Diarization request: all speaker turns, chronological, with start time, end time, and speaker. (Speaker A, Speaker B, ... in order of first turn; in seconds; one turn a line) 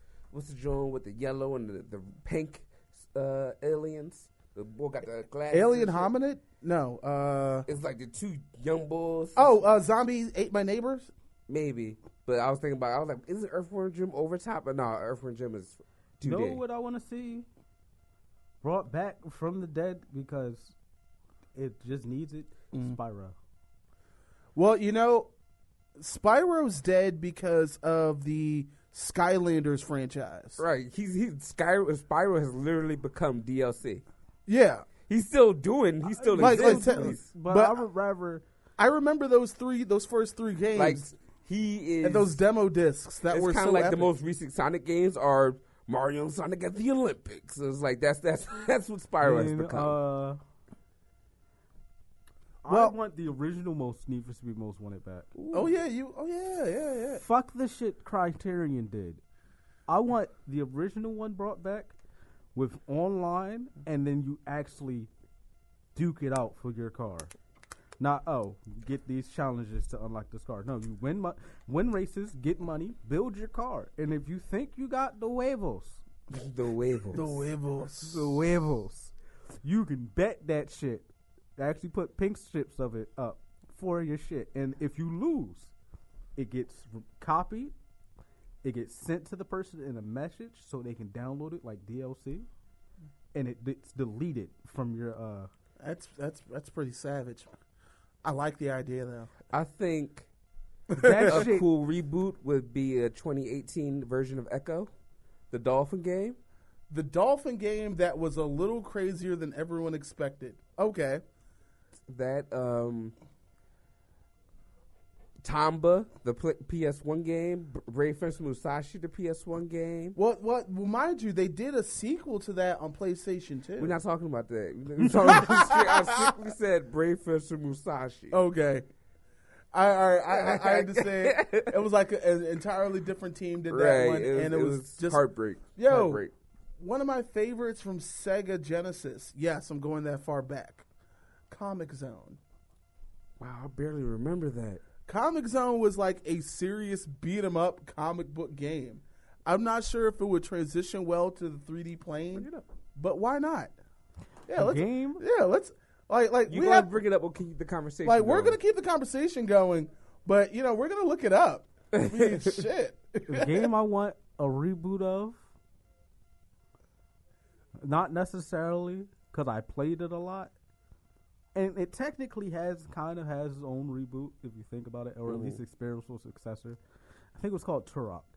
Speaker A: 0.3-6.1
Speaker B: 5.5-7.7
Speaker A: 7.7-9.6
Speaker B: 9.3-11.1
Speaker A: 11.5-16.6
Speaker C: 16.2-17.5
Speaker C: 18.6-20.7
Speaker C: 21.6-23.4
Speaker B: 24.6-25.3
Speaker B: 26.0-30.6
Speaker A: 30.6-34.0
Speaker B: 34.5-34.9
Speaker A: 35.1-37.2
Speaker C: 36.1-38.4
Speaker B: 36.4-37.8
Speaker B: 38.8-41.0
Speaker A: 40.8-42.4
Speaker B: 42.0-44.1
Speaker A: 43.3-50.0
Speaker C: 49.2-50.4
Speaker C: 52.6-55.3
Speaker B: 52.7-53.0
Speaker A: 55.4-55.7
Speaker B: 55.5-57.2
Speaker C: 57.2-59.2
Speaker C: 59.9-61.9
Speaker C: 62.5-65.1
Speaker C: 66.0-67.3
Speaker C: 68.0-76.0
Speaker A: 76.3-77.4
Speaker B: 77.1-78.4
Speaker C: 78.0-85.7
Speaker C: 86.4-87.7
Speaker C: 88.6-92.5
Speaker C: 93.3-95.5
Speaker B: 95.8-97.5
Speaker B: 98.2-99.3
Speaker A: 99.5-100.3
Speaker B: 100.9-101.5
Speaker C: 101.0-101.7
Speaker A: 101.2-104.9
Speaker A: 105.5-106.4
Speaker B: 106.9-111.2
Speaker A: 112.1-113.1
Speaker A: 115.4-120.2
Speaker B: 120.2-124.0
Speaker A: 123.8-128.4
Speaker B: 125.0-126.3
Speaker B: 128.3-128.9
Speaker B: 129.7-135.2
Speaker A: 130.3-131.8
Speaker A: 133.7-136.3
Speaker B: 135.8-136.2
Speaker B: 136.8-140.8
Speaker B: 141.5-142.4
Speaker A: 143.4-144.8
Speaker B: 145.1-153.7
Speaker A: 152.4-152.7
Speaker B: 154.5-157.0
Speaker C: 154.6-155.2
Speaker A: 156.5-158.6
Speaker B: 158.0-163.7
Speaker A: 161.9-162.5
Speaker C: 163.3-165.4
Speaker C: 167.8-170.5
Speaker C: 171.6-176.8
Speaker A: 175.3-175.6
Speaker C: 177.3-178.3